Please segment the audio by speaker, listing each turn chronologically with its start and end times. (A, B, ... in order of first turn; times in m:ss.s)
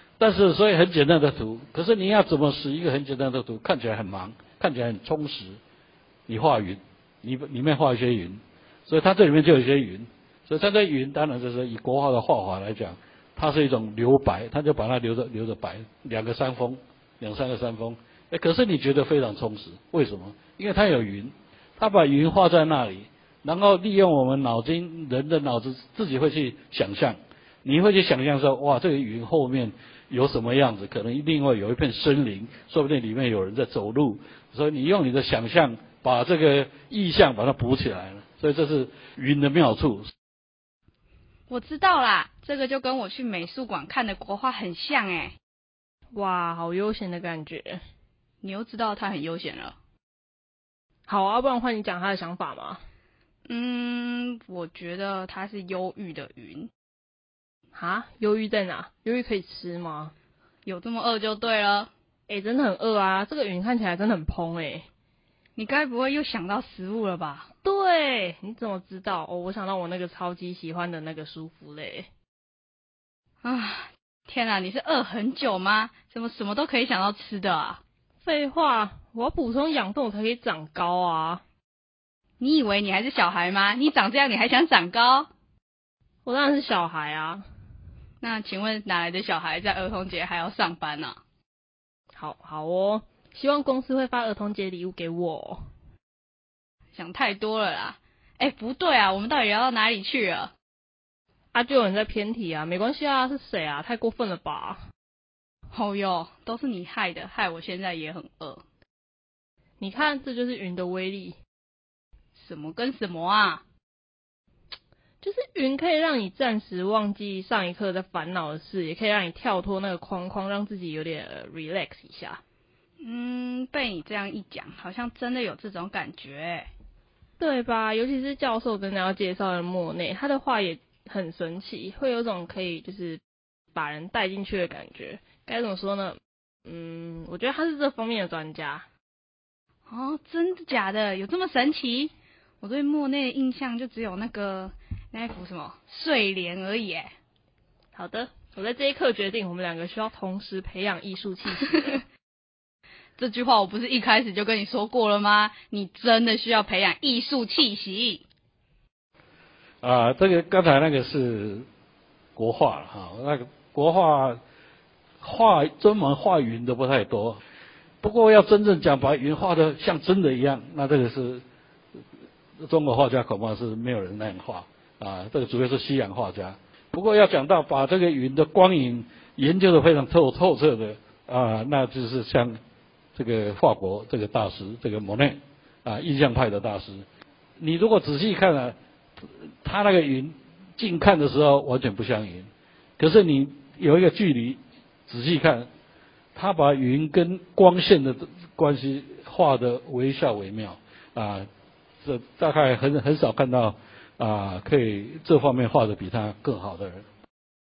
0:00.2-0:05.6 A
0:06.3-0:40.1 A
0:41.5-0:45.3 B
0:46.1-0:47.8 C
0:48.4-0:49.7 B
0:51.1-0:52.8 C
0:53.5-0:56.7 B
0:57.7-1:00.1 C
1:00.6-1:01.9 B
1:02.3-1:04.8 C
1:05.6-1:07.5 B
1:07.6-1:12.1 C
1:13.4-1:17.8 B
1:18.2-1:21.4 C
1:22.4-1:25.3 B
1:26.2-1:27.4 C
1:28.2-1:31.2 B
1:32.1-1:35.7 C
1:36.9-1:40.5 B
1:41.5-1:44.8 C
1:45.7-1:48.6 B
1:49.8-1:51.4 C
1:52.3-1:53.6 B
1:55.2-2:02.4 C
2:03.0-2:06.7 B
2:07.4-2:13.2 C
2:13.7-2:18.8 C
2:19.9-2:27.1 B
2:27.9-2:32.0 C
2:33.2-2:38.2 B
2:39.8-2:41.6 A
2:42.4-2:44.4 A
2:45.2-2:47.4 A
2:48.0-2:51.4 A
2:52.6-3:02.6 A
3:03.1-3:07.0 A
3:07.6-3:08.7 A
3:09.6-3:15.7 A
3:16.3-3:21.5 A
3:22.0-3:27.0 A